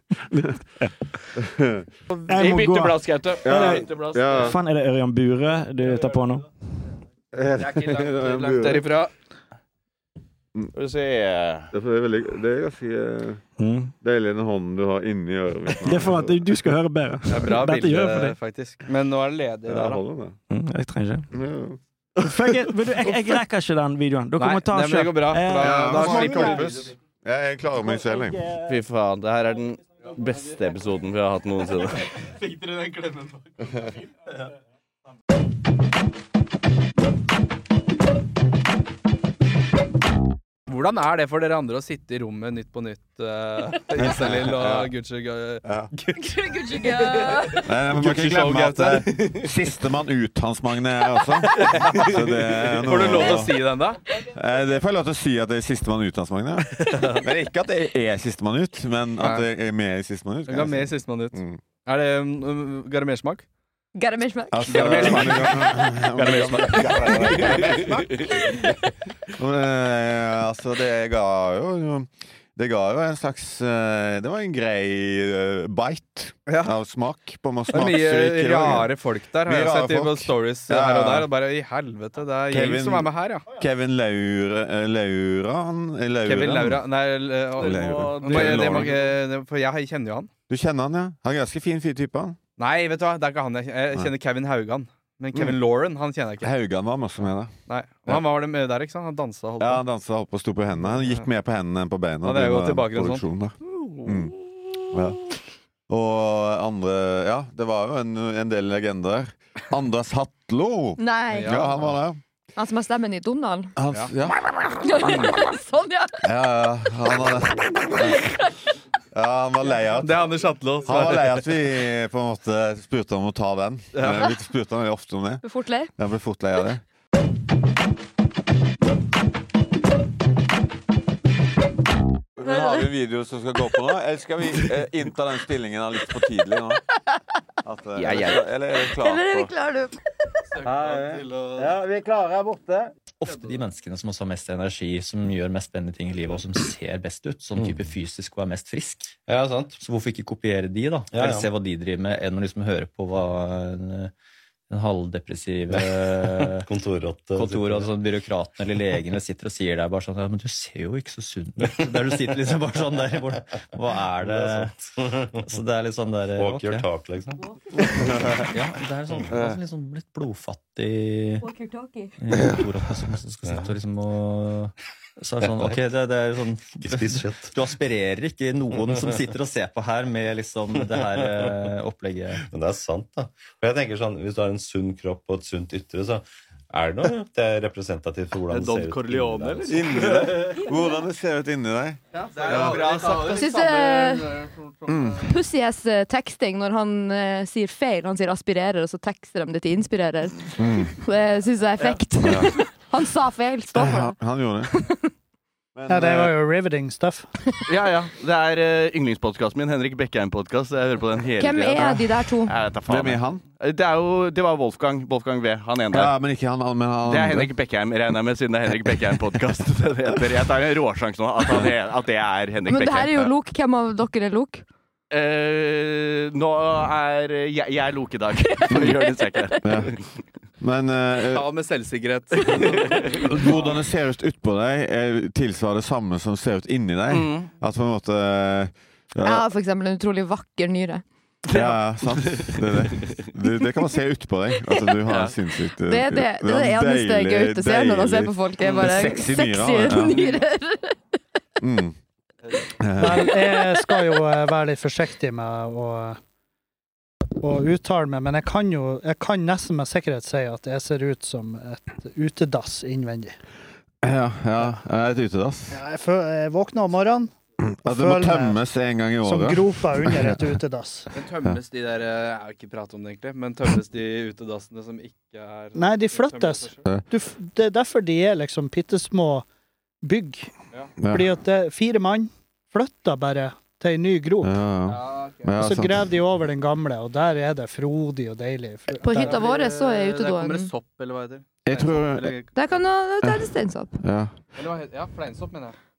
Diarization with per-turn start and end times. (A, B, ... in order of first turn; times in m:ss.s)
0:01.4-0:01.9 A
0:02.3-0:06.4 B
0:02.3-0:04.5 C
0:03.4-0:04.6 A
0:07.3-0:08.9 A
0:07.6-0:09.1 D
0:08.6-0:09.1 C
0:10.7-0:11.7 C
0:11.7-0:13.4 A
0:13.6-0:13.9 B
0:14.0-0:16.5 A
0:15.8-0:18.4 B
0:17.3-0:20.0 D
0:19.6-0:20.4 A
0:20.5-0:21.3 B
0:21.3-0:21.8 A
0:22.2-0:26.7 B
0:24.4-0:26.9 D
0:25.6-0:28.4 A
0:27.8-0:28.7 B
0:28.6-0:32.1 C
0:32.0-0:34.0 D
0:40.7-0:49.5 D
0:43.9-0:44.9 A
0:45.6-0:45.9 A
0:46.2-0:47.7 E
0:47.6-0:53.6 A
0:51.5-0:54.0 D
0:54.2-1:01.6 A
0:56.8-0:57.3 D
0:59.2-0:59.4 D
1:00.5-1:03.4 D
1:03.9-1:05.2 E
1:04.5-1:08.3 A
1:04.7-1:08.1 D
1:07.1-1:08.3 C
1:09.4-1:21.3 A
1:16.5-1:16.7 D
1:17.7-1:23.4 D
1:22.5-1:26.8 A
1:26.3-1:30.3 D
1:27.6-1:29.2 C
1:27.6-1:28.9 A
1:30.5-1:32.4 A
1:32.6-1:36.5 D
1:35.3-1:35.6 A
1:36.4-1:37.5 A
1:37.7-1:39.8 D
1:39.6-1:44.3 A
1:40.9-1:41.3 D
1:42.2-1:44.3 D
1:44.9-1:45.2 A
1:45.9-1:52.2 A
1:51.0-1:51.7 E
1:51.3-1:51.9 D
1:52.6-1:53.8 E
1:53.8-1:55.4 A
1:54.8-1:56.3 E
1:56.2-1:58.3 A
1:57.8-1:58.5 E
1:59.1-2:00.3 A
2:00.0-2:01.6 D
2:00.8-2:05.4 A
2:03.9-2:04.3 D
2:05.4-2:05.9 E
2:06.0-2:06.8 A
2:12.4-2:16.8 A
2:12.4-2:12.9 E
2:17.6-2:19.5 A
2:18.0-2:18.5 C
2:18.8-2:20.0 E
2:20.5-2:21.7 D
2:20.6-2:22.9 A
2:23.2-2:29.2 F
2:23.2-2:23.5 D
2:27.6-2:27.9 G
2:29.3-2:29.8 G
2:29.8-2:34.1 F
2:31.1-2:31.5 G
2:34.7-2:36.7 F
2:35.7-2:37.9 G
2:37.3-2:46.9 F
2:41.6-2:42.3 G
2:44.2-2:45.5 G
2:46.3-2:48.5 G
2:47.9-2:48.4 A
2:48.1-2:51.5 F
2:49.1-2:49.5 G
2:49.3-2:49.6 A
2:51.4-2:52.2 E
2:52.2-3:02.4 F
2:53.4-2:53.8 G
2:55.4-2:55.8 G
2:56.8-2:57.6 G
3:00.8-3:01.4 G
3:02.4-3:10.2 G
3:08.5-3:10.6 D
3:09.7-3:13.2 A
3:12.2-3:13.5 C
3:12.2-3:15.3 D
3:13.4-3:14.5 E
3:14.9-3:15.3 A
3:15.2-3:25.1 E
3:20.6-3:20.9 A
3:22.2-3:22.6 A
3:23.7-3:24.7 A
3:25.8-3:26.3 A
3:25.9-3:27.3 H
3:27.6-3:36.1 C
3:31.4-3:32.5 E
3:32.9-3:33.4 A
3:35.9-3:37.5 A
3:37.1-3:43.2 C
3:42.6-3:44.6 E
3:45.1-3:50.1 C
3:48.6-3:49.6 E
3:48.7-3:49.0 A
3:49.6-3:50.0 A
3:50.6-3:51.5 A
3:51.3-3:53.8 D
3:52.9-3:53.2 C
3:53.2-3:59.4 A
3:57.1-3:57.5 C
3:59.2-4:01.0 E
4:01.5-4:03.2 C
4:01.5-4:10.2 A
4:05.1-4:05.4 C
4:05.8-4:11.0 E
4:08.6-4:08.8 C
4:11.6-4:12.0 A
4:12.8-4:13.4 A
4:13.0-4:16.2 H
4:13.3-4:14.2 E
4:17.4-4:23.4 H
4:24.0-4:25.8 A
4:25.7-4:27.3 H
4:27.6-4:30.4 A
4:27.8-4:28.6 H
4:29.2-4:31.1 H
4:31.1-4:36.8 D
4:35.8-4:39.5 H
4:40.0-4:40.5 H
4:41.0-4:44.6 H
4:44.4-4:46.1 A
4:44.8-4:45.6 D
4:45.6-4:49.5 H
4:49.0-4:50.7 E
4:49.0-4:52.6 D
4:51.6-4:52.4 A
4:52.5-4:54.0 E
4:53.2-4:54.3 A
4:54.5-4:55.8 D